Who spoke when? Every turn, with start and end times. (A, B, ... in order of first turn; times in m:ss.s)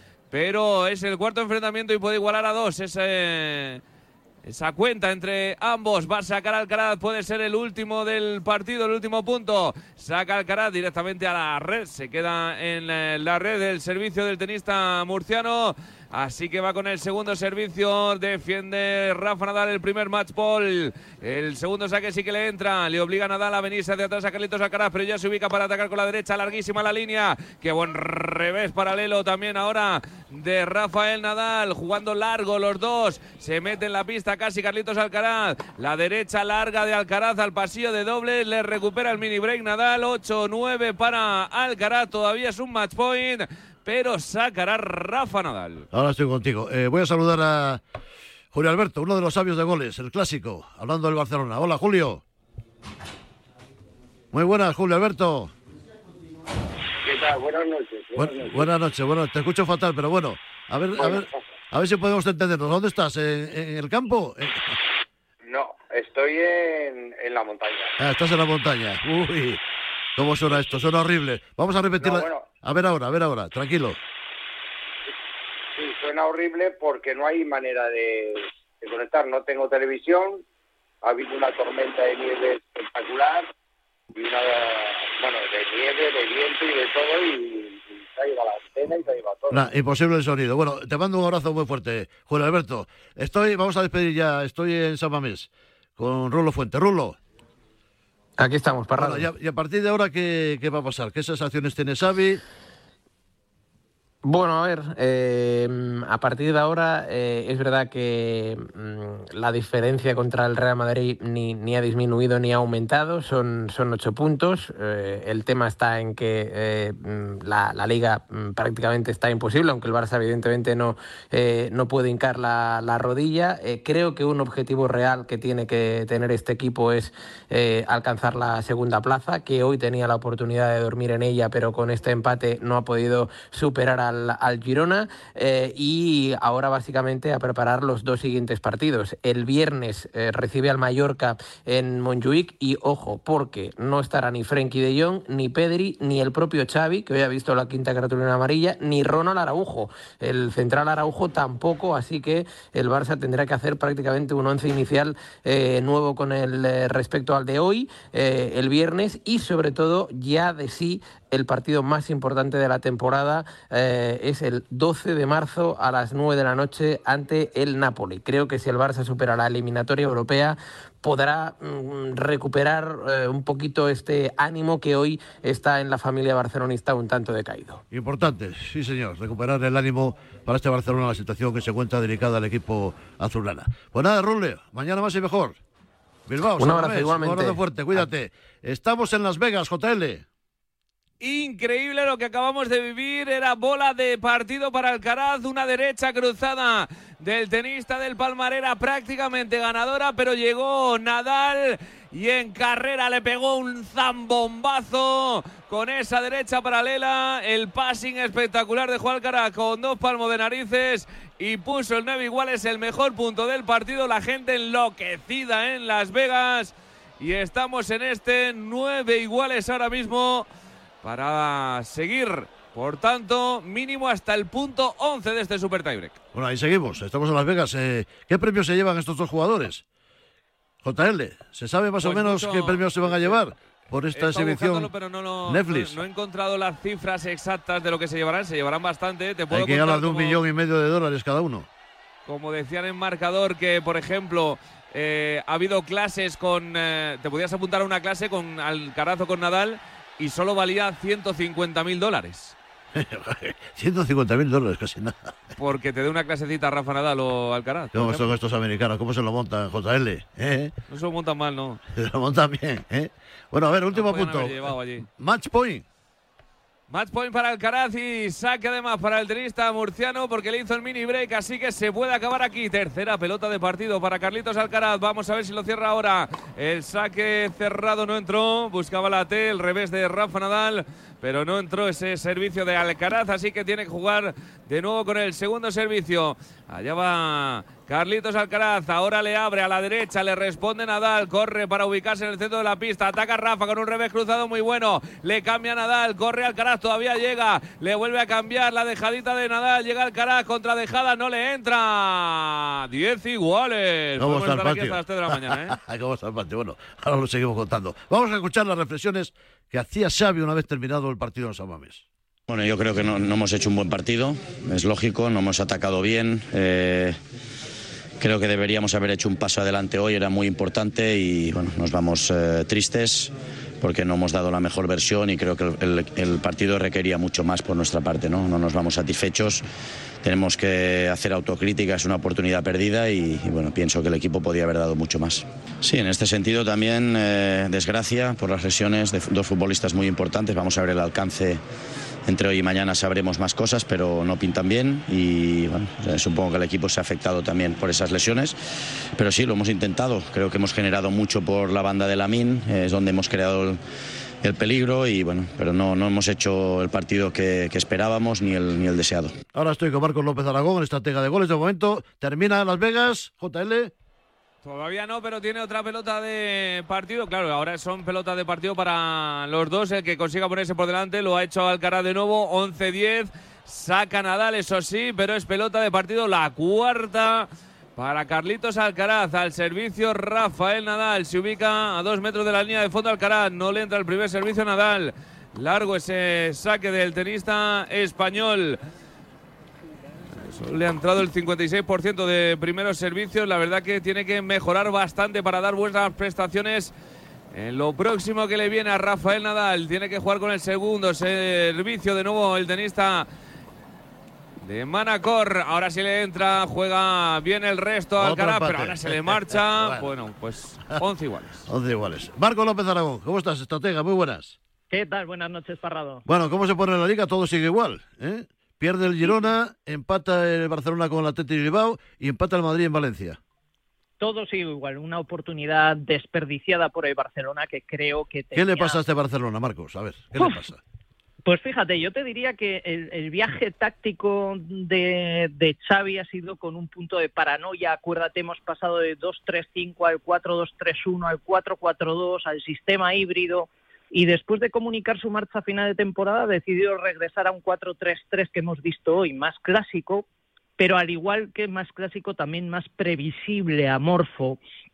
0:00.3-0:03.8 A
0:04.4-0:45.9 A
0:45.9-0:47.8 B
0:48.5-0:52.2 B
0:54.3-0:55.5 B
0:57.0-0:58.7 C
0:58.2-1:04.8 B
1:01.0-1:01.4 C
1:05.4-1:07.9 C
1:08.0-1:09.6 B
1:10.2-1:14.0 B
1:12.0-1:12.5 C
1:15.8-1:20.4 C
1:21.0-1:23.5 C
1:24.1-1:29.6 C
1:29.5-1:37.2 B
1:38.4-1:39.2 D
1:38.9-1:42.4 B
1:44.2-2:57.8 D
2:57.9-3:05.6 B
3:06.3-3:10.2 B
3:06.6-3:08.0 D
3:11.2-3:40.5 A
3:41.0-3:46.2 A
3:46.3-3:49.8 B
3:50.8-3:54.9 B
3:52.0-3:53.4 A
3:54.1-4:00.4 A
3:55.4-3:56.0 B
3:59.5-4:01.7 B
4:02.2-4:12.6 A
4:12.9-4:15.3 B
4:15.6-4:18.3 A
4:17.9-4:20.7 B
4:20.9-4:21.8 A
4:21.9-4:25.8 B
4:23.9-4:25.1 A
4:26.9-5:05.8 A
5:04.2-5:12.0 B
5:12.5-5:17.2 E
5:18.2-5:29.6 E
5:30.2-5:41.6 E
5:42.2-5:48.6 E
5:49.1-5:53.8 E
5:54.4-5:59.4 E
5:59.5-6:03.9 B
6:04.6-6:28.8 A
6:30.3-6:36.9 A
6:37.5-6:43.3 A
6:44.6-6:51.7 A
6:48.2-6:50.1 B
6:51.7-6:54.6 B
6:54.9-6:56.2 F
6:56.3-7:03.4 B
7:04.2-7:09.0 F
7:08.5-7:10.8 B
7:11.4-7:30.2 F
7:30.8-7:34.6 F